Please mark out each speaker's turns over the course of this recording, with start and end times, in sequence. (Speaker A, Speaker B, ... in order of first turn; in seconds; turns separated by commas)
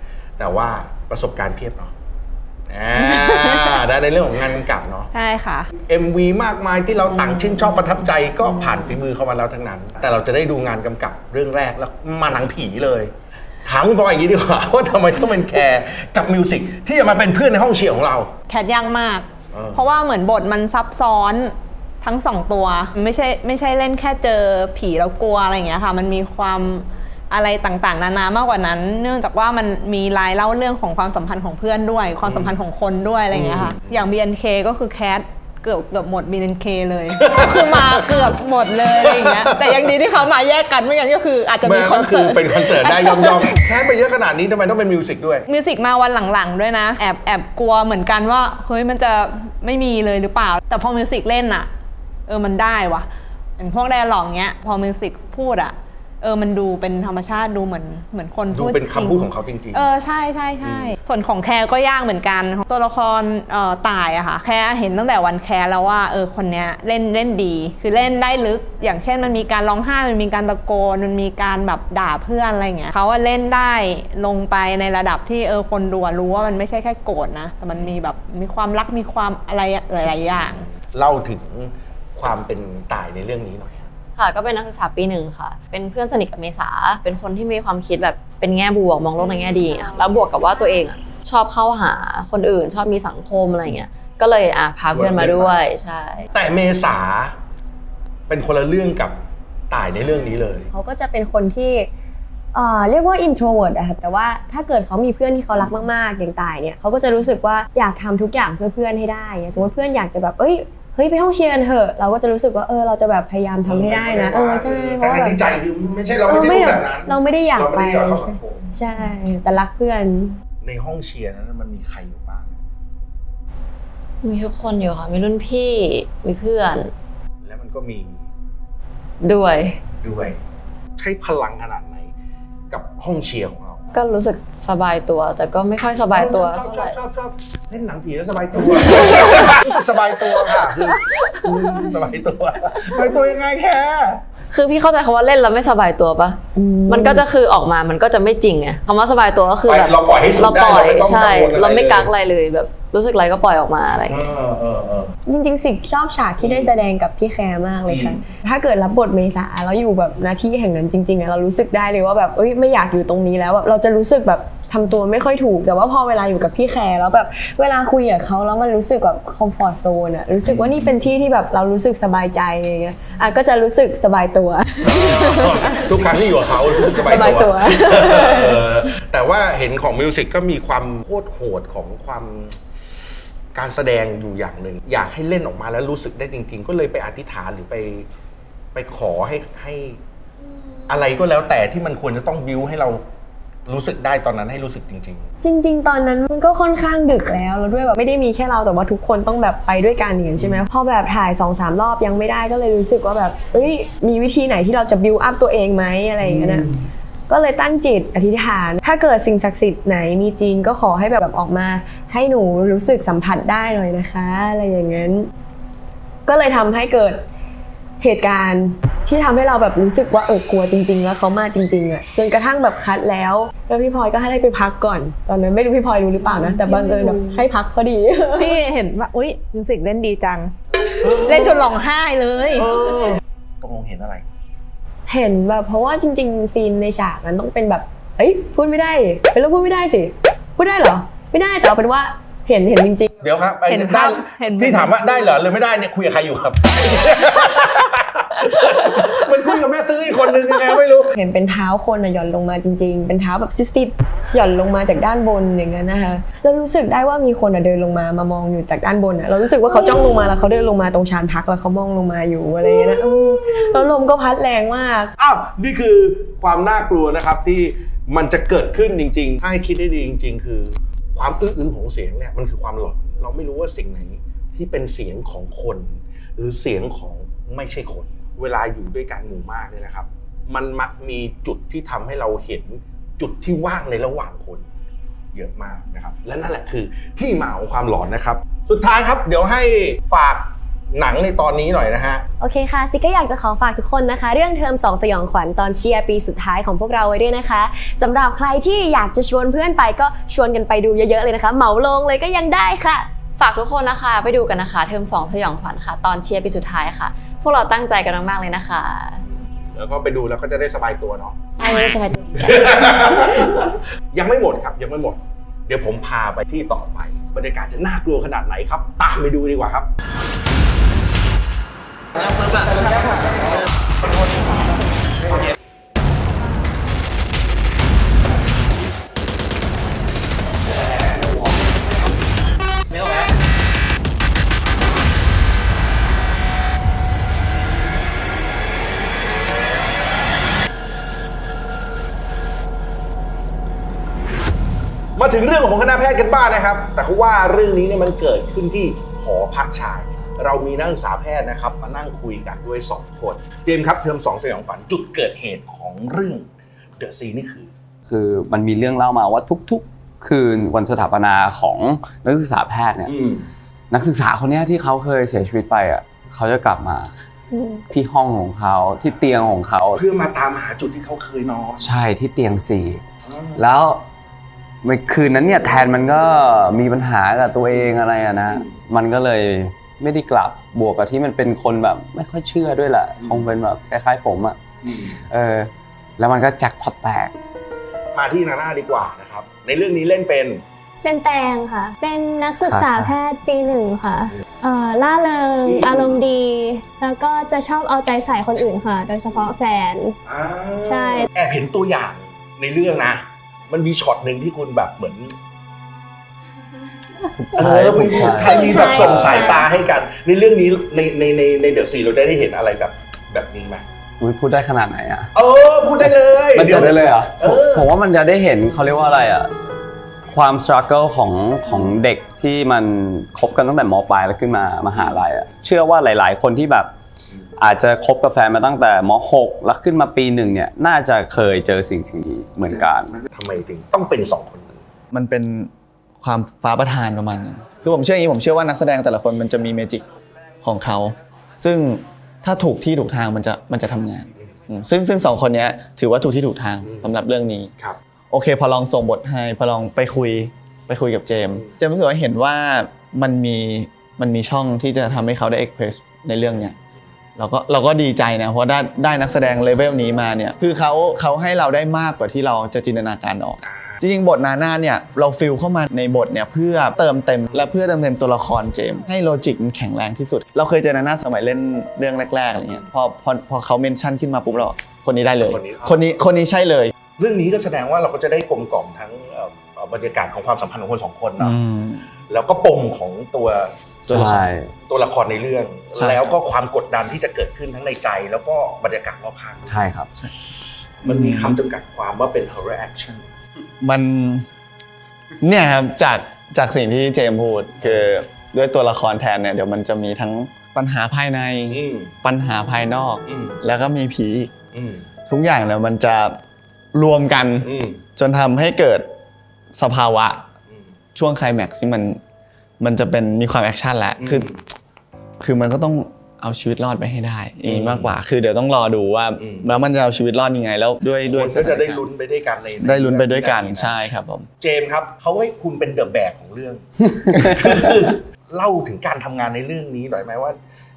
Speaker A: 0.4-1.9, Speaker A: 2.7-5.1, Speaker B: 3.0-3.8, Speaker B: 5.1-5.7, Speaker A: 5.8-13.1, Speaker A: 13.7-18.3, Speaker B: 18.5-43.6, Speaker A: 19.5-19.9, Speaker A: 32.2-32.6, Speaker A: 33.3-34.1, Speaker A: 37.1-38.2, Speaker A: 38.8-40.0, Speaker A: 41.6-45.5, Speaker B: 45.5-51.7, Speaker B: 52.3-80.7, Speaker A: 58.5-59.9, Speaker A: 60.6-60.9, Speaker A: 80.4-83.9, Speaker C: 84.2-96.3, Speaker A: 94.9-95.5, Speaker A: 96.3-97.3, Speaker A: 98.3-99.2, Speaker A: 99.7-100.7, Speaker D: 100.7-101.9, Speaker D: 102.5-115.4, Speaker A: 113.6-118.8, Speaker D: 116.3-120.3, Speaker A: 120.6-122.6, Speaker C: 124.2-126.9, Speaker A: 127.4-128.2, Speaker C: 129.2-129.8, Speaker A: 130.0-130.4, Speaker A: 131.0-132.1, Speaker A: 132.7-133.8, Speaker C: 133.9-137.0, Speaker A: 136.1-144.2, Speaker C: 144.5-154.3, Speaker D: 146.6-147.2, Speaker A: 149.7-152.1, Speaker A: 154.1-155.1, Speaker D: 155.3-175.8, Speaker A: 156.4-156.7, Speaker A: 157.9-158.2, Speaker A: 170.4-171.0, Speaker A: 174.9-182.6, Speaker D: 176.7-178.7, Speaker A: 183.5-188.1, Speaker A: 188.7-190.0, Speaker A: 190.9-193.0, Speaker A: 193.7-195.3, Speaker D: 195.4-206.7, Speaker A: 200.4-200.7, Speaker A: 206.2-206.7, Speaker D: 207.3-215.3, Speaker D: 216.3-217.2, Speaker D: 218.0-228.6, Speaker B: 226.3-227.4, Speaker B: 228.4-233.1, Speaker A: 231.0-231.7, Speaker A: 232.6-234.2, Speaker D: 235.1-243.1, Speaker A: 243.2-251.1, Speaker B: 243.7-245.0, Speaker D: 251.1-265.1, Speaker A: 265.2-284.7, Speaker A: 285.3-292.2, Speaker D: 292.4-303.1, Speaker C: 303.4-309.2, Speaker A: 309.7-319.9, Speaker C: 311.6-313.1, Speaker A: 345.2-357.7, Speaker E: 358.1-363.1, Speaker A: 363.1-363.5, Speaker E: 363.9-367.1, Speaker F: 367.5-367.8, Speaker E: 367.9-370.0, Speaker A: 369.9-371.8, Speaker E: 371.8-373.0, Speaker A: 373.3-373.6, Speaker E: 373.6-374.0, Speaker E: 374.8-384.6, Speaker A: 383.2-383.5, Speaker A: 384.8-385.2, Speaker E: 385.3-387.3, Speaker A: 388.1-390.6, Speaker F: 391.0-400.2, Speaker E: 392.6-393.1, Speaker A: 395.6-396.2, Speaker A: 400.3-405.4, Speaker F: 400.9-401.3, Speaker E: 407.4-409.7, Speaker A: 407.6-413.9, Speaker F: 408.4-409.7, Speaker E: 414.2-415.3, Speaker A: 415.4-417.9, Speaker E: 416.0-419.5, Speaker G: 416.7-417.3, Speaker E: 420.3-426.9, Speaker A: 424.9-425.2, Speaker E: 427.6-433.2, Speaker A: 432.7-434.9, Speaker G: 435.1-440.0, Speaker G: 440.6-447.7, Speaker G: 448.3-456.8, Speaker G: 457.4-476.9, Speaker A: 463.6-464.0, Speaker A: 475.4-475.9, Speaker A: 477.2-481.5, Speaker G: 481.4-482.1, Speaker A: 482.3-483.7, Speaker G: 484.1-484.4, Speaker E: 484.1-484.7, Speaker A: 484.9-489.9, Speaker G: 486.0-486.3, Speaker E: 489.7-490.1, Speaker A: 491.0-493.2, Speaker G: 491.0-491.6, Speaker G: 493.8-494.5, Speaker G: 495.4-504.6, Speaker A: 497.8-498.1, Speaker A: 501.7-502.1, Speaker A: 503.3-503.6, Speaker A: 504.7-505.1, Speaker G: 505.3-506.4, Speaker G: 506.9-509.1, Speaker A: 507.6-508.0, Speaker G: 509.7-510.5, Speaker G: 511.1-512.2, Speaker G: 512.8-514.5, Speaker A: 514.2-514.6, Speaker G: 515.4-522.0, Speaker A: 517.6-518.1, Speaker A: 519.4-519.7, Speaker A: 521.3-523.9, Speaker G: 522.8-524.5, Speaker A: 524.6-530.6